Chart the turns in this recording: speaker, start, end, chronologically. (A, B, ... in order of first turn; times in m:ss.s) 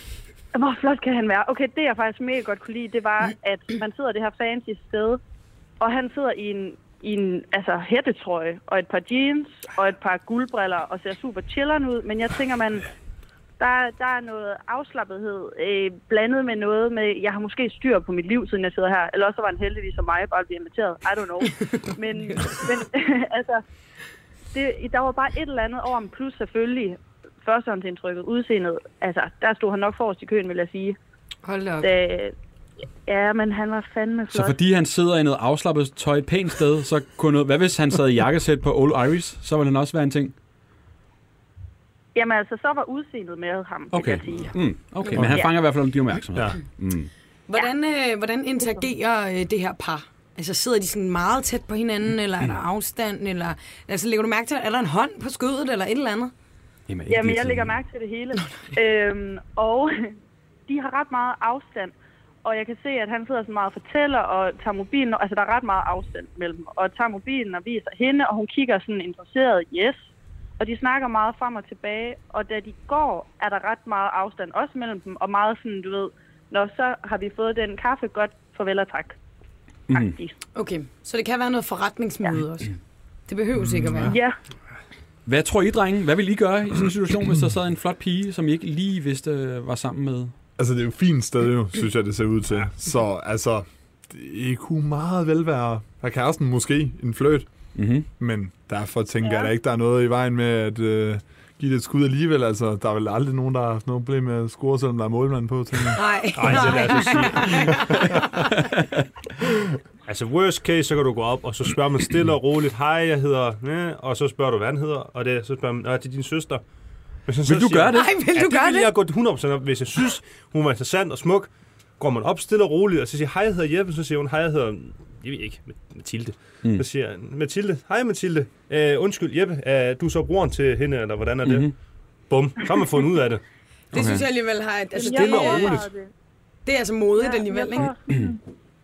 0:00.5-0:05.2 A
0:05.8-0:12.9 A
0:13.6-0:23.6 A
0:24.5-0:31.0 A
0:31.4-0:31.9 B
0:31.8-0:32.3 A
0:33.0-0:34.6 A
0:34.3-0:40.3 C
0:42.1-0:44.6 A
0:43.9-0:47.1 C
0:45.1-0:45.6 A
0:47.5-0:56.3 B
0:56.9-0:57.8 C
0:57.1-1:00.1 A
1:00.7-1:10.0 A
1:10.6-1:19.2 A
1:19.9-1:20.1 C
1:19.9-1:20.3 A
1:20.5-1:22.7 B
1:23.3-1:24.2 B
1:24.0-1:24.4 A
1:25.2-1:30.3 C
1:30.6-1:37.5 D
1:37.8-1:38.1 C
1:38.2-1:46.6 D
1:39.2-1:39.5 A
1:45.9-1:48.2 B
1:46.3-1:47.8 E
1:48.6-1:49.0 C
1:50.1-1:56.6 E
1:57.3-2:11.7 E
1:57.4-1:58.1 C
1:57.9-1:58.9 B
2:11.4-2:11.7 C
2:12.3-2:13.4 E
2:13.9-2:15.8 B
2:13.9-2:14.2 C
2:14.9-2:16.1 A
2:15.1-2:15.9 E
2:16.6-2:17.9 B
2:17.2-2:18.4 A